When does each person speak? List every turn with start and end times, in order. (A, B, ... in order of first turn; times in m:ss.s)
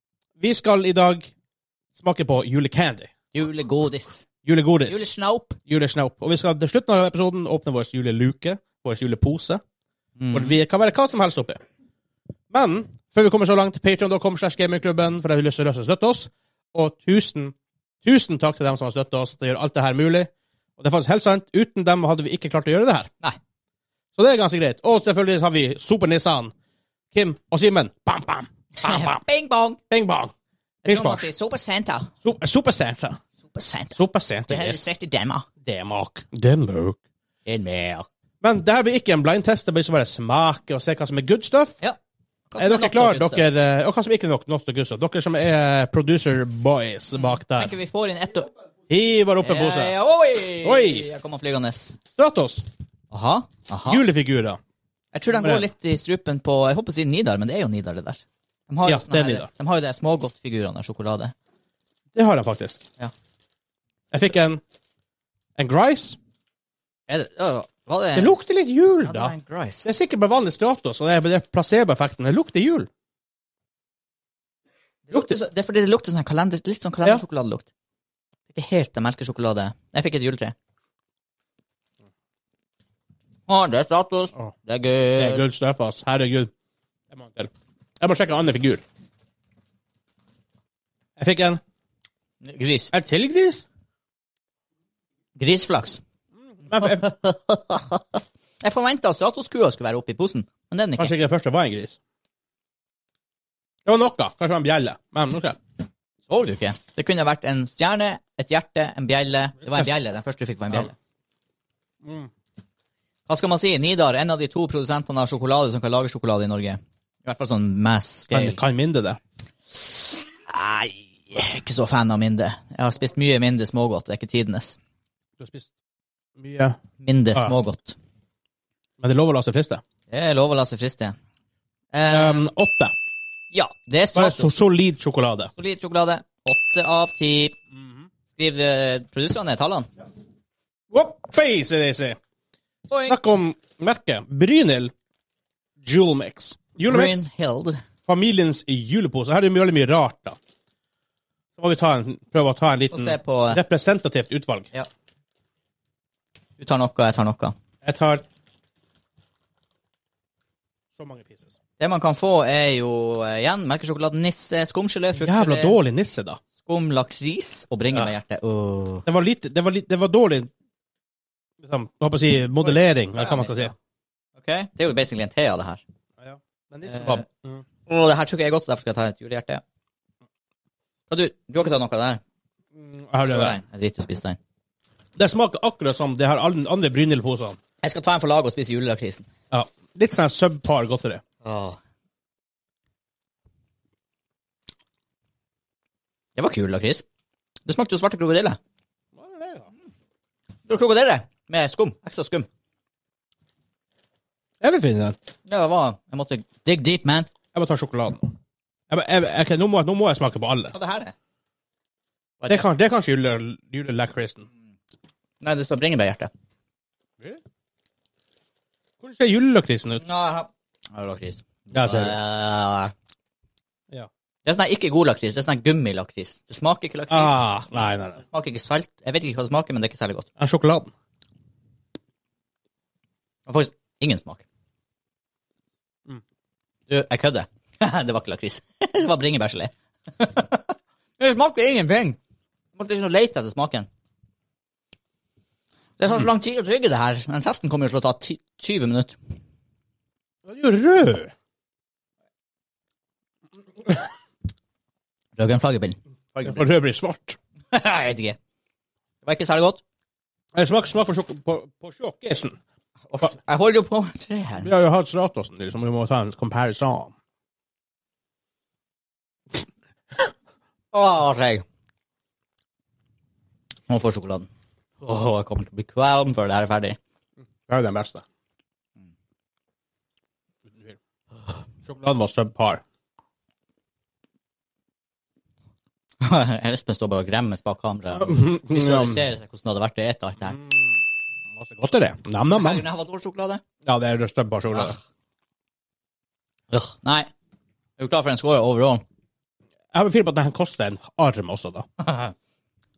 0:00.4-0:01.3 A
0:02.0-0:03.1 A
0:03.3-0:04.3 B
0:04.4-0:05.1 A
0:04.8-0:05.6 B
0:05.7-0:09.6 A
0:10.2-0:10.5 B
0:10.3-0:11.6 A
0:12.5-0:23.1 A
0:24.1-0:26.5 A
0:27.1-0:29.2 A
0:28.8-0:29.8 B
0:29.9-0:30.3 A
0:30.8-0:32.1 B
0:30.8-0:31.3 A
0:32.2-0:33.2 A
0:33.4-0:34.0 B
0:33.9-0:34.8 A
0:34.5-0:35.4 B
0:35.6-0:37.0 A
0:37.4-0:38.1 B
0:38.4-0:41.8 A
0:42.5-0:43.4 B
0:42.6-0:47.8 A
0:47.2-0:48.5 B
0:48.9-0:49.9 A
0:49.4-0:52.0 B
0:50.6-0:51.1 A
0:52.1-0:52.6 A
0:53.1-0:54.0 B
0:53.9-0:54.6 A
0:55.1-1:01.3 B
0:55.3-0:55.7 A
0:58.8-0:59.5 A
1:02.1-1:02.8 A
1:04.1-1:04.6 A
1:05.6-1:06.2 A
1:07.1-1:08.3 B
1:08.2-1:12.9 A
1:09.0-1:09.9 B
1:15.1-1:17.7 B
1:18.5-1:20.5 B
1:23.5-1:25.4 B
1:25.2-1:26.5 A
1:27.1-1:28.8 A
1:31.2-1:31.6 A
1:32.4-1:32.9 B
1:32.9-1:33.6 A
1:35.4-1:36.0 B
1:36.5-1:37.1 A
1:36.8-1:41.1 B
1:41.0-1:42.0 A
1:43.8-1:45.6 A
1:46.3-1:50.9 B
1:52.0-1:52.3 A
1:53.3-1:58.6 B
1:58.3-1:59.2 A
1:59.8-2:04.8 B
2:05.4-2:05.7 A
2:06.4-2:06.8 A
2:07.0-2:08.0 B
2:09.0-2:09.8 A
2:10.1-2:11.1 B
2:11.9-2:12.5 B
2:12.1-2:12.9 A
2:13.5-2:14.5 B
2:14.1-2:15.5 A
2:15.6-2:17.5 B
2:18.3-2:19.9 B
2:20.9-2:22.2 A
2:22.9-2:23.2 B
2:23.0-2:24.9 A
2:25.8-2:27.2 A
2:26.8-2:27.8 B
2:28.1-2:30.4 A
2:31.6-2:34.7 A
2:32.9-2:33.6 B
2:36.6-2:37.5 B
2:37.8-2:38.2 A
2:41.0-2:41.5 A
2:41.8-2:45.8 B
2:45.2-2:46.4 A
2:46.6-2:49.0 B
2:49.0-2:50.5 A
2:51.6-2:53.7 A
2:52.6-2:53.7 B
2:54.4-2:55.8 B
2:56.2-2:57.6 A
2:56.9-2:57.2 B
2:57.8-2:59.6 B
3:01.1-3:02.2 B
3:02.8-3:03.6 A
3:03.2-3:04.4 B
3:05.2-3:07.6 A
3:07.8-3:09.2 B
3:09.5-3:11.2 A
3:11.4-3:11.8 B
3:16.4-3:17.0 B
3:17.6-3:18.6 B
3:19.2-3:19.7 A
3:20.6-3:22.5 B
3:24.6-3:25.2 A
3:25.4-3:27.3 B
3:27.5-3:28.3 A
3:28.9-3:30.7 A
3:30.7-3:31.1 B
3:32.4-3:32.7 B
3:32.5-3:34.5 A
3:35.4-3:36.3 B
3:39.0-3:40.0 A
3:40.0-3:42.9 B
3:41.7-3:42.2 A
3:44.4-3:47.5 B
3:47.1-3:48.2 A
3:48.2-3:50.3 B
3:50.4-3:50.9 A
3:53.4-3:54.4 B
3:56.9-4:02.2 B
4:02.7-4:03.9 B
4:06.0-4:09.2 B
4:10.4-4:11.3 A
4:15.4-4:16.6 B
4:16.4-4:17.4 A
4:17.7-4:18.4 B
4:19.2-4:19.8 B
4:20.5-4:22.5 A
4:23.1-4:24.7 B
4:24.6-4:27.1 A
4:30.9-4:31.6 B
4:33.9-4:34.5 B
4:35.0-4:37.0 B
4:37.7-4:38.2 A
4:41.8-4:42.8 A
4:46.2-4:50.6 B
4:48.2-4:49.2 A
4:51.6-4:52.8 A
4:52.5-4:53.6 B
4:53.8-4:55.0 A
4:56.7-4:57.3 B
4:58.0-4:59.0 B
4:59.9-5:01.8 A
5:02.0-5:02.3 B